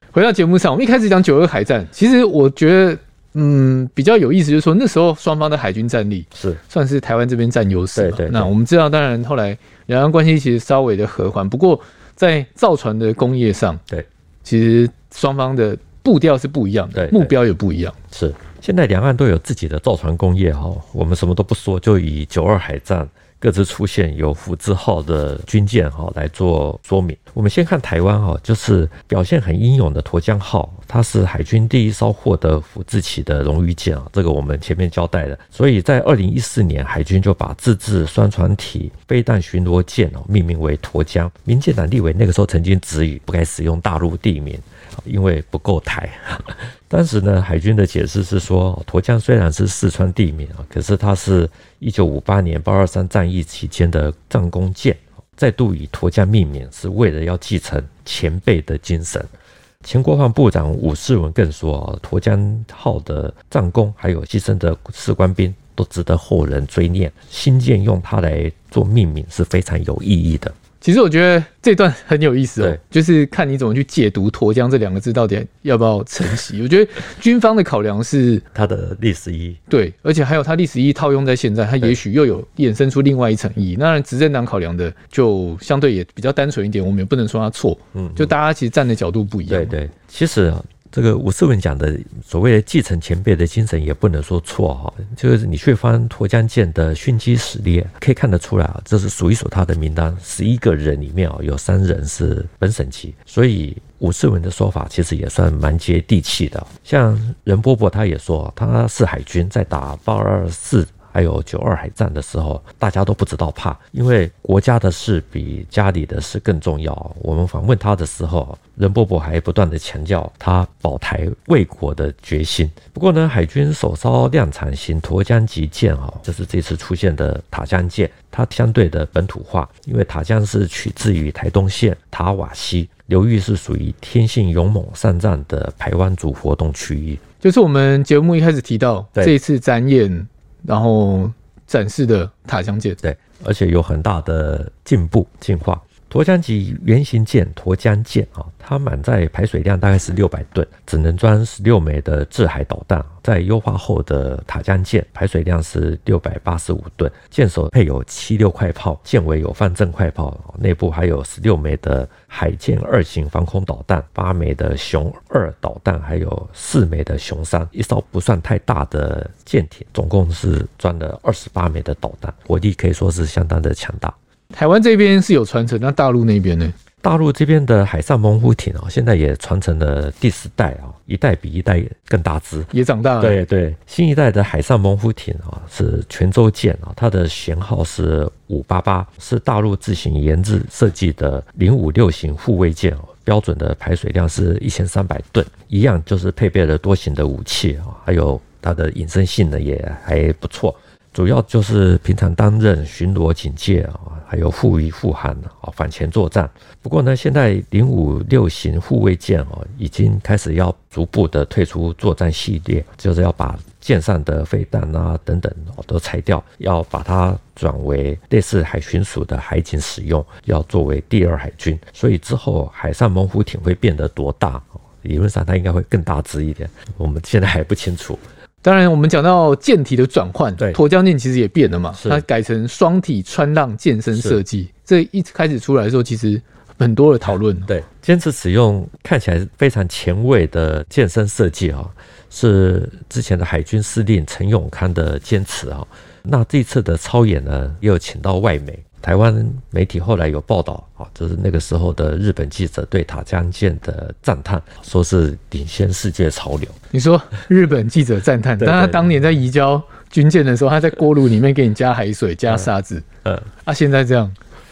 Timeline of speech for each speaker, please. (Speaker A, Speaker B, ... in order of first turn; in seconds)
Speaker A: 0.1-13.8, 14.4-18.0, 70.8-78.4, 79.7-89.7, 137.4-143.0, 174.5-176.7, 182.7-183.3, 228.6-237.7, 256.9-263.1, 263.6-264.4
Speaker B: 6.3-6.6, 7.9-8.5, 16.9-17.3, 18.1-59.3, 59.8-70.5, 78.5-79.6, 87.9-88.3, 89.5-137.2, 143.0-174.1, 177.0-182.7, 183.2-228.2, 231.9-232.2, 234.1-234.4, 237.7-256.8, 258.6-259.2